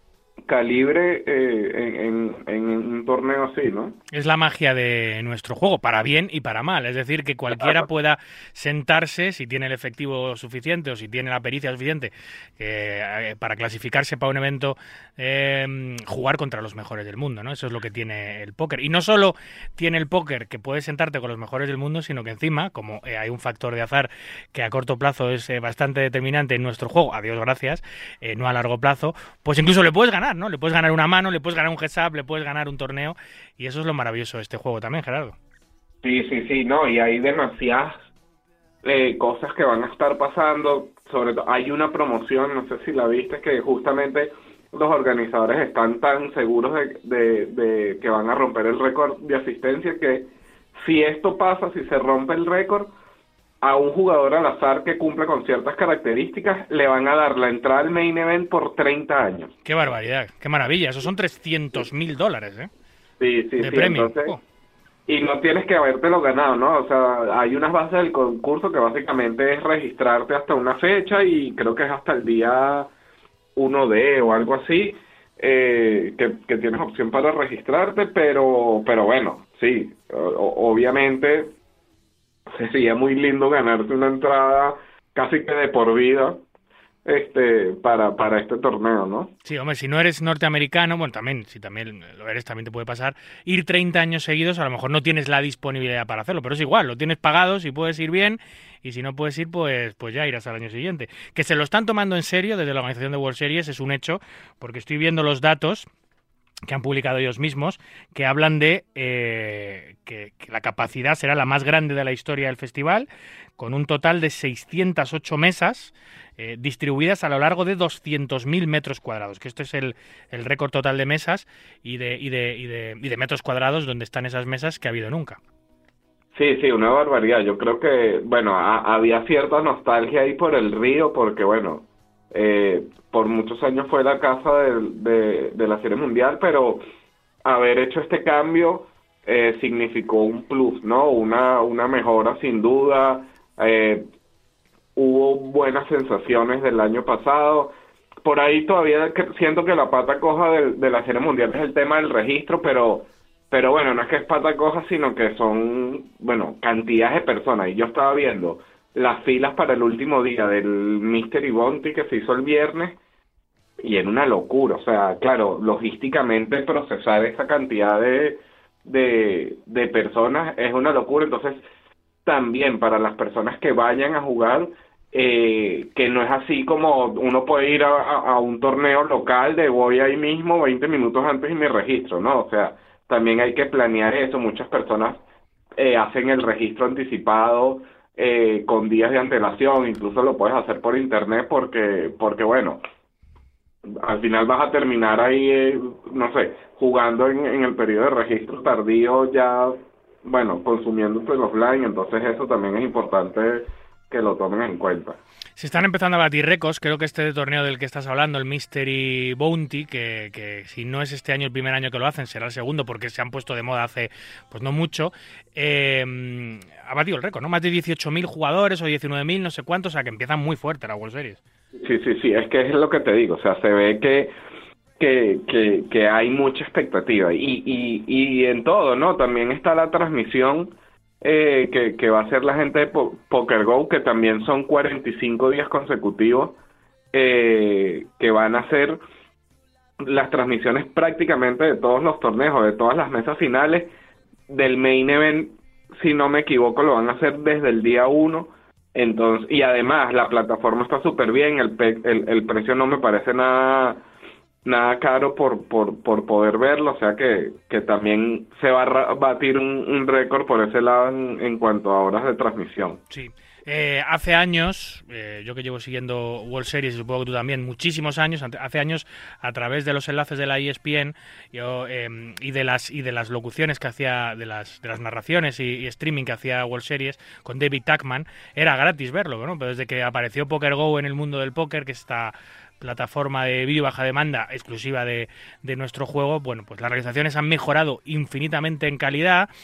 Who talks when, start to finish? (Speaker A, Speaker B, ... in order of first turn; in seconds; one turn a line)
Speaker A: 0.5-4.0
Speaker B: 4.1-35.4
Speaker A: 7.5-7.8
Speaker A: 36.0-38.1
Speaker A: 38.8-52.9
Speaker A: 53.6-59.5
Speaker B: 59.6-62.7
Speaker A: 63.2-64.3
Speaker B: 63.6-64.4
Speaker A: 65.1-72.9
Speaker A: 73.5-81.5
Speaker A: 82.5-86.4
Speaker A: 87.0-89.3
Speaker B: 89.4-105.9
Speaker B: 106.7-113.1
Speaker B: 113.6-125.4
Speaker A: 126.3-136.8
Speaker A: 137.4-144.1
Speaker A: 144.9-162.9
Speaker A: 163.8-171.6
Speaker A: 172.2-185.2
Speaker A: 185.8-192.8
Speaker A: 194.0-205.2
Speaker B: 205.6-221.4
Speaker A: 221.8-224.3
Speaker A: 225.0-236.6
Speaker A: 237.1-239.0
Speaker A: 240.0-243.9
Speaker A: 244.5-254.0
Speaker A: 254.6-263.0
Speaker B: 263.1-289.5